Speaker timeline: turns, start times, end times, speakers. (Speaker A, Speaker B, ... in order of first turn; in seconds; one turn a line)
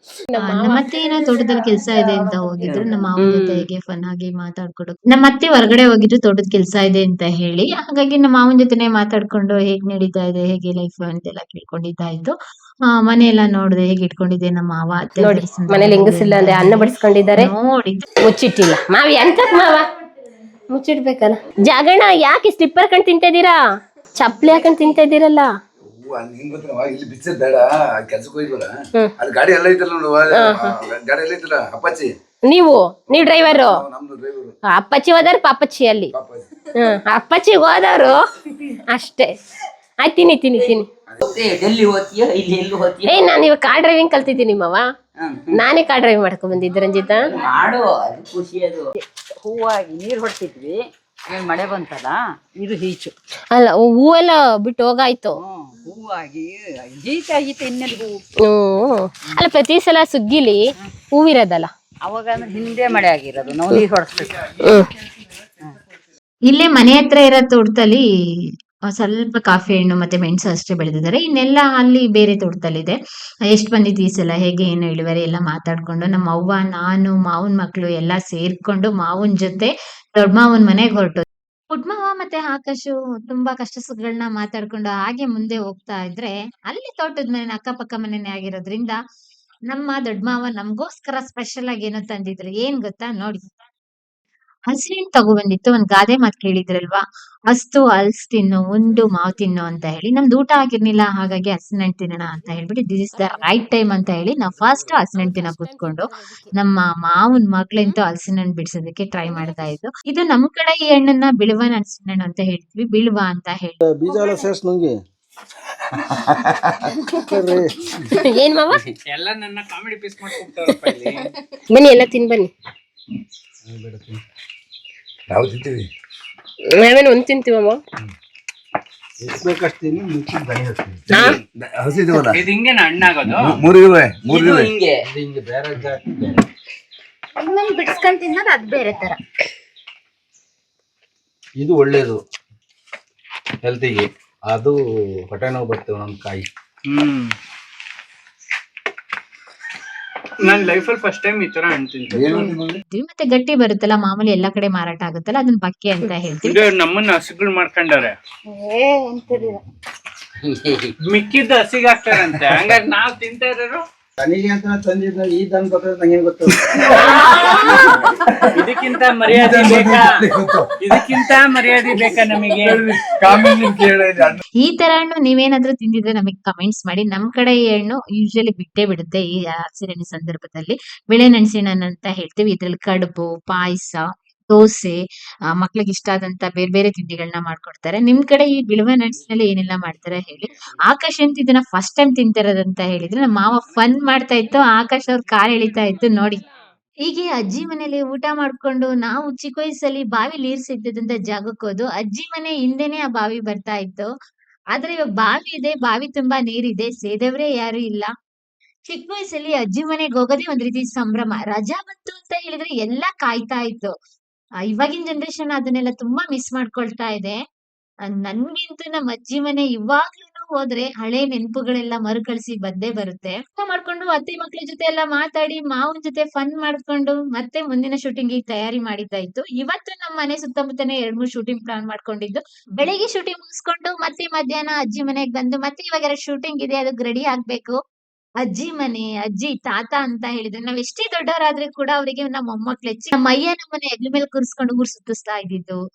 Speaker A: 0.3-0.9
Speaker B: 0.4-12.3
Speaker C: 2.4-3.0
Speaker A: 3.2-3.6
Speaker B: 12.9-18.1
Speaker A: 15.2-17.5
Speaker A: 18.2-19.8
Speaker A: 20.7-23.6
Speaker A: 24.1-25.5
Speaker D: 25.9-32.1
Speaker A: 30.3-30.8
Speaker A: 32.5-33.8
Speaker D: 33.1-34.5
Speaker A: 34.7-36.1
Speaker D: 36.1-36.5
Speaker A: 36.7-39.3
Speaker A: 40.0-40.9
Speaker C: 41.2-43.3
Speaker A: 43.0-44.8
Speaker C: 45.2-45.6
Speaker A: 45.5-47.4
Speaker C: 47.3-48.9
Speaker C: 49.4-53.1
Speaker A: 53.5-55.4
Speaker C: 55.3-58.1
Speaker A: 58.4-61.7
Speaker C: 62.0-64.4
Speaker A: 64.6-64.9
Speaker B: 66.5-73.0
Speaker B: 73.5-89.0
Speaker B: 89.7-93.6
Speaker B: 94.7-113.8
Speaker A: 103.2-103.4
Speaker A: 105.1-106.5
Speaker E: 113.8-115.0
Speaker E: 117.2-118.1
Speaker A: 118.1-118.8
Speaker F: 119.1-121.3
Speaker A: 121.7-122.5
Speaker E: 123.6-124.2
Speaker D: 125.3-125.9
Speaker A: 126.8-127.8
Speaker E: 129.2-131.3
Speaker D: 131.1-132.4
Speaker A: 131.1-131.4
Speaker F: 131.1-131.4
Speaker F: 132.2-133.6
Speaker D: 133.4-134.7
Speaker C: 134.2-135.0
Speaker E: 134.8-136.4
Speaker G: 137.4-139.2
Speaker E: 141.6-142.2
Speaker E: 143.6-146.5
Speaker F: 146.9-147.3
Speaker F: 150.4-152.6
Speaker D: 152.1-152.8
Speaker B: 152.9-156.6
Speaker F: 156.4-158.2
Speaker G: 158.5-159.6
Speaker C: 160.4-160.9
Speaker F: 161.0-163.8
Speaker E: 164.2-167.8
Speaker F: 166.6-170.3
Speaker D: 169.3-171.7
Speaker F: 170.8-173.7
Speaker D: 172.6-174.4
Speaker B: 174.6-196.4
Speaker B: 197.0-204.1
Speaker B: 204.7-208.1
Speaker B: 208.9-213.9
Speaker B: 214.7-217.4
Speaker B: 218.1-237.8
Speaker B: 238.4-245.8